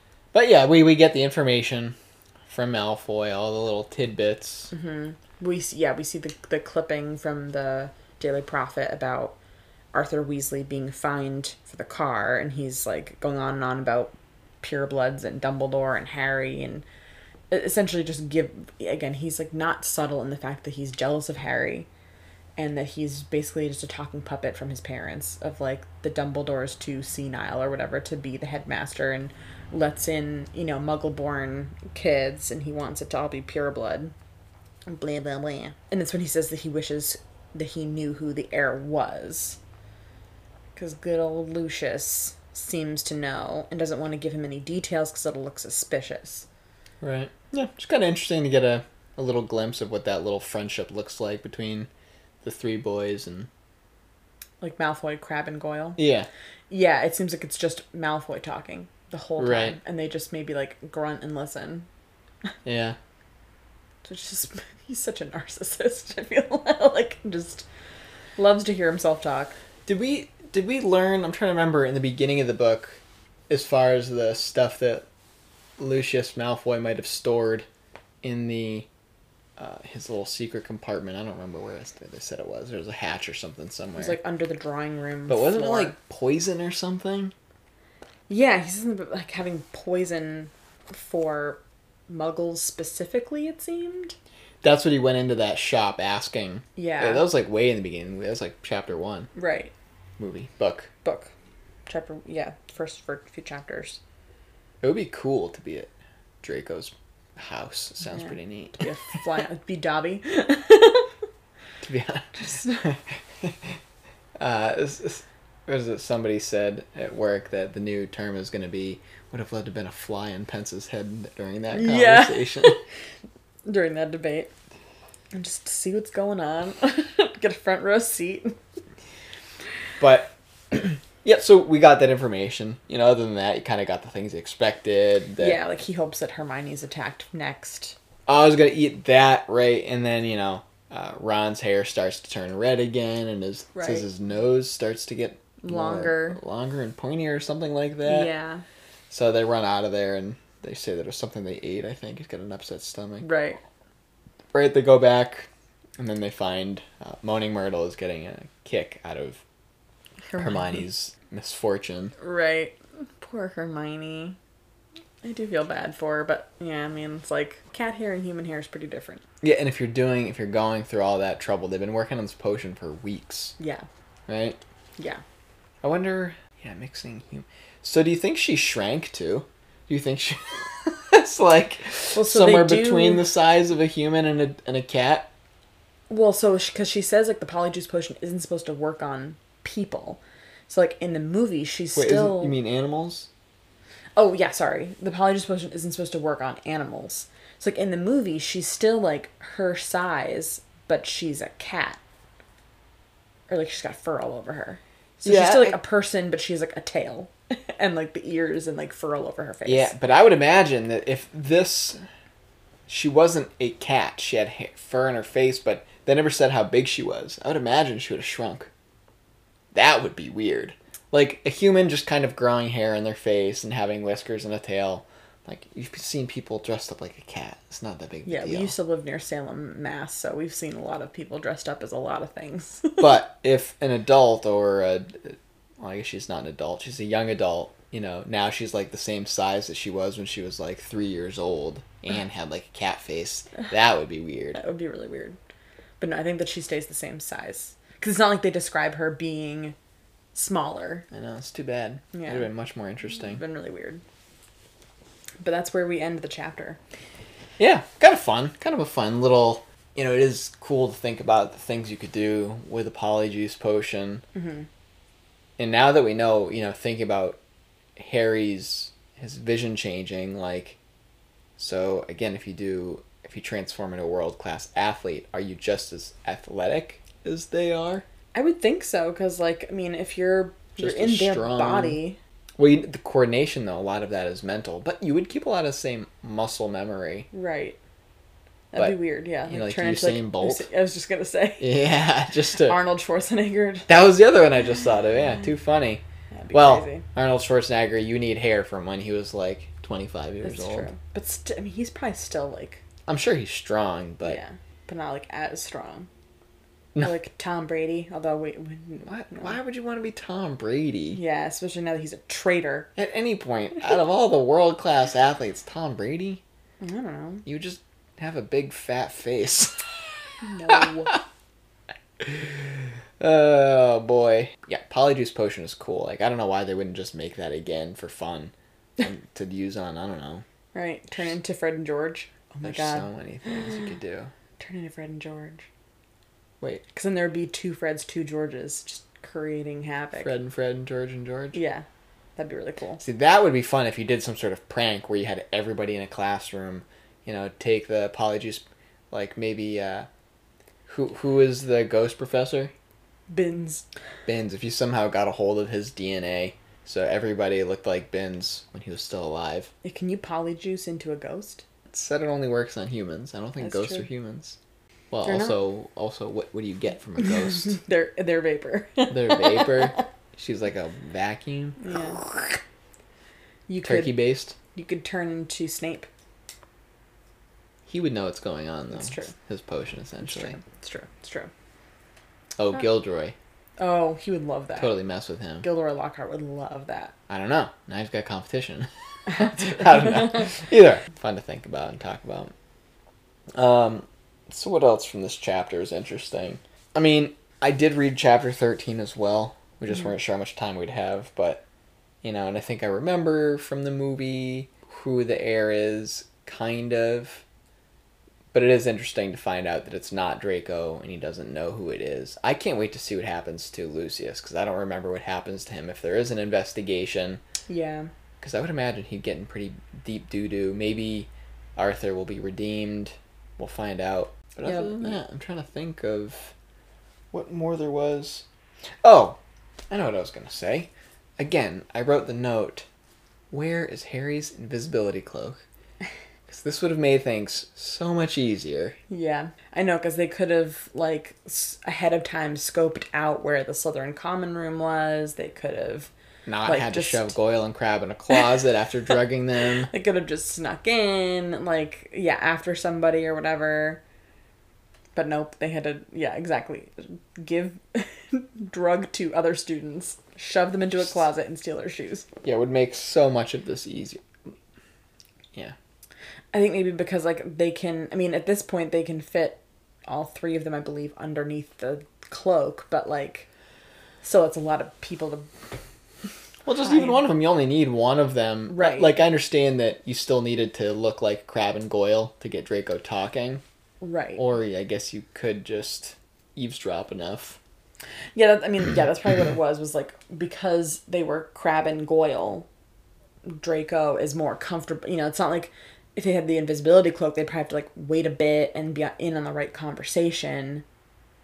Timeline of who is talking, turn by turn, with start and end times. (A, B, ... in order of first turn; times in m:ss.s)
0:00.3-0:04.7 A
0:04.7-0:09.4 B
0:09.9-0:16.8 B
0:17.5-0:21.9 B
0:22.6-0:34.1 B
0:34.9-0:39.6 B
0:40.8-0:46.4 B
0:47.0-0:51.9 A
0:52.4-0:53.5 A
0:54.6-0:56.0 B
0:56.0-0:56.3 A
0:56.7-1:01.9 B
0:59.4-0:59.8 A
1:02.6-1:03.0 A
1:04.0-1:07.7 B
1:08.4-1:09.5 B
1:09.8-1:15.0 A
1:15.8-1:17.7 A
1:18.2-1:18.9 A
1:19.6-1:24.2 A
1:24.0-1:25.9 B
1:25.3-1:27.3 A
1:28.3-1:34.2 B
1:34.6-1:39.3 A
1:36.8-1:37.2 B
1:39.3-1:39.7 B
1:40.2-1:40.9 A
1:41.0-1:41.3 B
1:41.9-1:44.0 B
1:44.8-1:45.9 A
1:46.4-1:48.9 A
1:48.1-1:51.1 B
1:51.8-1:53.8 A
1:52.4-1:52.8 B
1:54.4-2:02.8 A
2:01.7-2:02.8 B
2:03.6-2:04.5 B
2:05.3-2:08.6 B
2:10.0-2:15.6 A
2:15.4-2:18.0 B
2:18.3-2:28.3 A
2:23.7-2:24.0 B
2:25.6-2:26.4 B
2:28.0-2:28.6 B
2:29.1-2:33.3 A
2:33.2-2:33.6 B
2:34.5-2:39.4 A
2:40.3-2:40.8 B
2:40.4-2:42.1 A
2:42.2-2:44.4 B
2:45.2-2:49.2 B
2:49.4-2:53.6 A
2:53.6-2:53.8 B
2:54.3-2:54.6 A
2:55.8-3:05.3 A
3:02.1-3:03.2 B
3:06.1-3:12.6 B
3:11.9-3:13.3 A
3:14.2-3:22.0 B
3:23.5-3:29.9 B
3:25.2-3:25.8 A
3:29.6-3:32.0 A
3:32.9-3:38.7 A
3:39.7-3:48.8 A
3:48.2-3:53.1 B
3:53.0-4:04.6 A
4:04.5-4:05.4 B
4:06.0-4:09.8 B
4:10.3-4:11.1 B
4:11.1-4:13.4 A
4:12.1-4:12.5 B
4:13.2-4:14.0 B
4:15.4-4:16.8 B
4:17.6-4:24.2 A
4:24.3-4:24.7 B
4:25.6-4:27.4 A
4:28.0-4:30.8 A
4:31.6-4:38.0 A
4:38.3-4:42.2 B
4:40.8-4:42.0 A
4:42.6-4:47.3 A
4:47.3-4:47.8 B
4:48.7-4:51.8 B
4:48.7-4:50.7 A
4:51.6-4:52.8 A
4:52.6-4:53.9 B
4:53.9-5:00.9 A
4:56.3-4:57.0 B
5:00.4-5:02.8 B
5:03.1-5:04.4 A
5:04.2-5:06.1 B
5:07.0-5:09.6 B
5:09.0-5:11.2 A
5:11.1-5:12.9 B
5:13.0-5:16.4 A
5:16.8-5:17.4 B
5:17.4-5:21.2 A
5:20.4-5:21.2 B
5:22.2-5:30.4 A
5:30.7-5:33.1 B
5:32.6-5:34.3 A
5:34.6-5:35.7 B
5:36.9-5:40.3 B
5:40.2-5:41.6 A
5:41.5-5:41.8 B
5:42.4-5:43.0 B
5:43.0-5:50.1 A
5:50.9-5:52.7 A
5:53.3-5:53.8 B
5:54.2-5:59.7 A
5:59.8-6:01.6 B
6:01.9-6:04.6 A
6:03.6-6:04.1 B
6:05.1-6:07.8 A
6:05.2-6:05.6 B
6:07.2-6:10.0 B
6:09.1-6:12.3 A
6:11.8-6:12.2 B
6:13.7-6:14.2 B
6:13.8-6:14.6 A
6:14.7-6:16.1 B
6:17.8-6:20.6 A
6:18.9-6:19.3 B
6:20.2-6:21.5 B
6:22.6-6:23.3 A
6:23.8-6:25.0 B
6:24.8-6:25.6 A
6:25.6-6:27.1 B
6:27.3-6:32.5 A
6:33.5-6:41.6 A
6:42.2-6:47.4 A
6:48.5-6:57.4 A
6:57.7-6:58.1 B
6:58.4-7:06.5 A
7:04.6-7:05.2 B
7:07.3-7:08.4 A
7:09.0-7:09.4 A
7:09.9-7:12.9 A
7:13.5-7:15.6 A
7:16.5-7:19.0 A
7:19.1-7:26.1 B
7:26.4-7:29.9 A
7:26.6-7:27.4 B
7:29.9-7:34.0 B
7:35.1-7:42.3 B
7:42.4-7:44.5 A
7:46.5-7:53.5 B
7:54.2-7:55.5 B
7:56.6-8:03.6 A
7:56.8-7:57.2 B
7:58.7-7:59.2 B
8:04.0-8:04.4 B
8:04.4-8:07.6 A
8:08.3-8:12.7 B
8:13.4-8:20.8 B